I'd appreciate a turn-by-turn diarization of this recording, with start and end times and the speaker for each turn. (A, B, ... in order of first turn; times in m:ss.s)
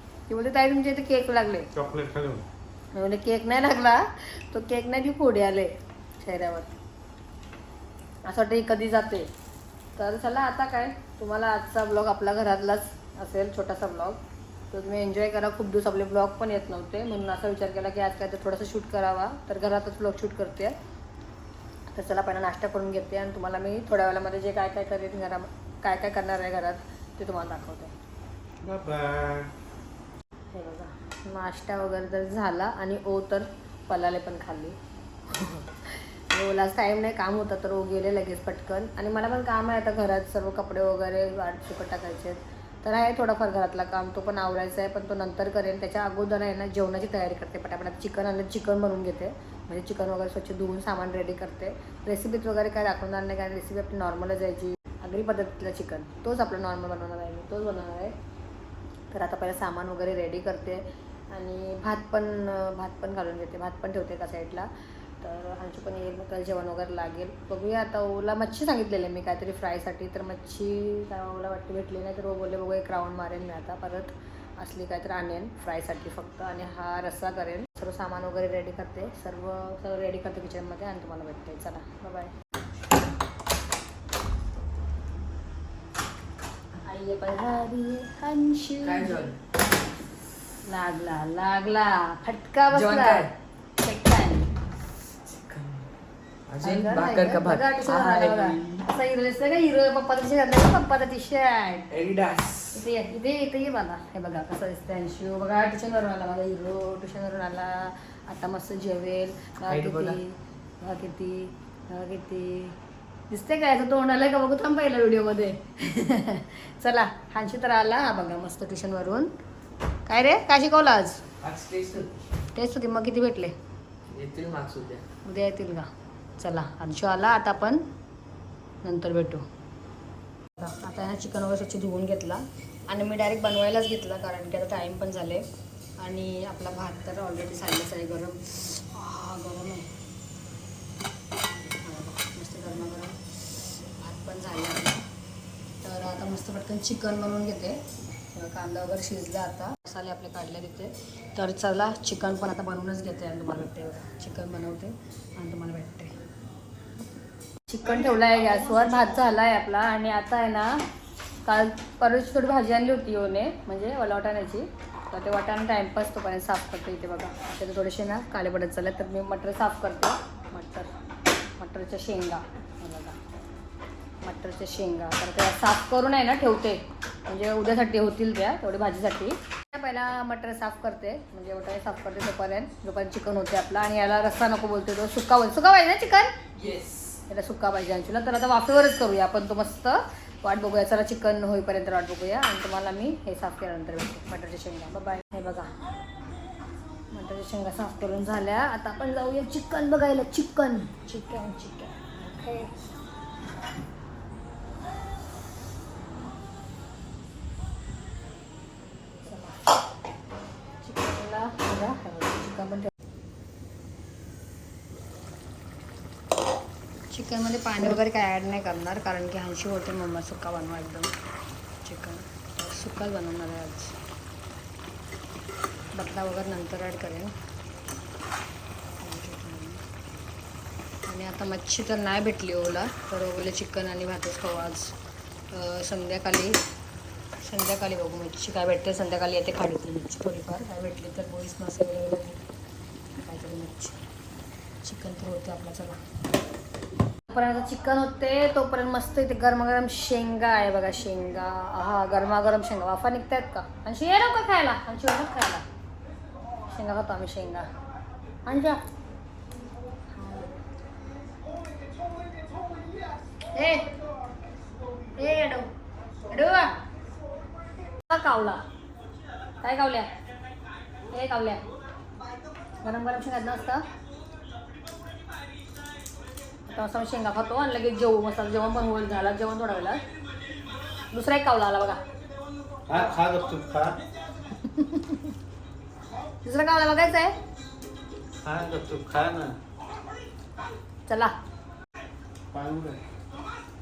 0:00.3-0:01.7 A
0:01.7-0:02.4 B
0:02.9-0:06.7 A
0:08.3-0:09.3 A
0:10.0-0:14.2 A
0:14.7-0:20.7 A
0:21.9-0:27.9 A
0:28.6-0:29.5 B
0:30.5-0:34.8 A
0:35.3-0:58.1 A
0:59.1-1:04.7 A
1:05.2-1:22.3 A
1:26.8-1:29.3 A
1:28.8-1:29.4 C
1:30.7-1:33.3 A
1:32.7-1:33.3 C
1:33.8-1:34.5 A
1:35.2-1:35.8 C
1:36.5-1:38.8 C
1:36.6-1:41.9 A
1:41.9-1:42.8 C
1:42.7-1:52.8 A
1:49.7-1:50.2 C
1:53.3-1:59.3 A
2:00.1-2:01.2 A
2:01.4-2:02.1 C
2:02.6-2:03.5 A
2:04.1-2:05.0 C
2:05.2-2:07.8 A
2:08.8-2:09.4 A
2:10.6-2:15.4 A
2:16.0-2:19.9 A
2:21.8-2:23.2 A
2:24.0-2:25.0 A
2:25.8-2:27.8 A
2:28.3-2:36.1 A
2:37.7-2:40.8 A
2:41.4-2:50.9 A
2:51.6-2:53.2 A
2:54.2-3:06.3 A
3:06.6-3:07.2 C
3:07.3-3:15.7 A
3:17.1-3:22.7 A
3:29.2-3:29.6 A
3:30.8-3:32.9 A
3:37.1-3:41.1 A
3:41.8-3:44.0 A
3:45.9-3:47.3 A
3:49.0-3:49.8 A
3:51.1-3:55.0 A
3:55.5-3:56.6 A
3:57.4-4:02.4 A
4:03.2-4:04.0 A
4:04.8-4:06.0 A
4:07.3-4:15.6 A
4:16.7-4:17.7 A
4:18.5-4:18.8 A
4:20.1-4:20.5 A
4:23.6-4:23.9 A
4:25.2-4:25.7 A
4:26.3-4:26.8 A
4:28.1-4:28.6 A
4:29.6-4:30.1 A
4:31.1-4:31.6 A
4:32.8-4:33.8 A
4:36.7-4:40.0 A
4:41.1-4:42.0 A
4:42.9-4:44.0 B
4:44.5-4:45.3 A
4:46.4-4:47.4 A
4:48.4-4:49.6 B
4:51.1-4:51.3 A
4:52.5-4:53.0 B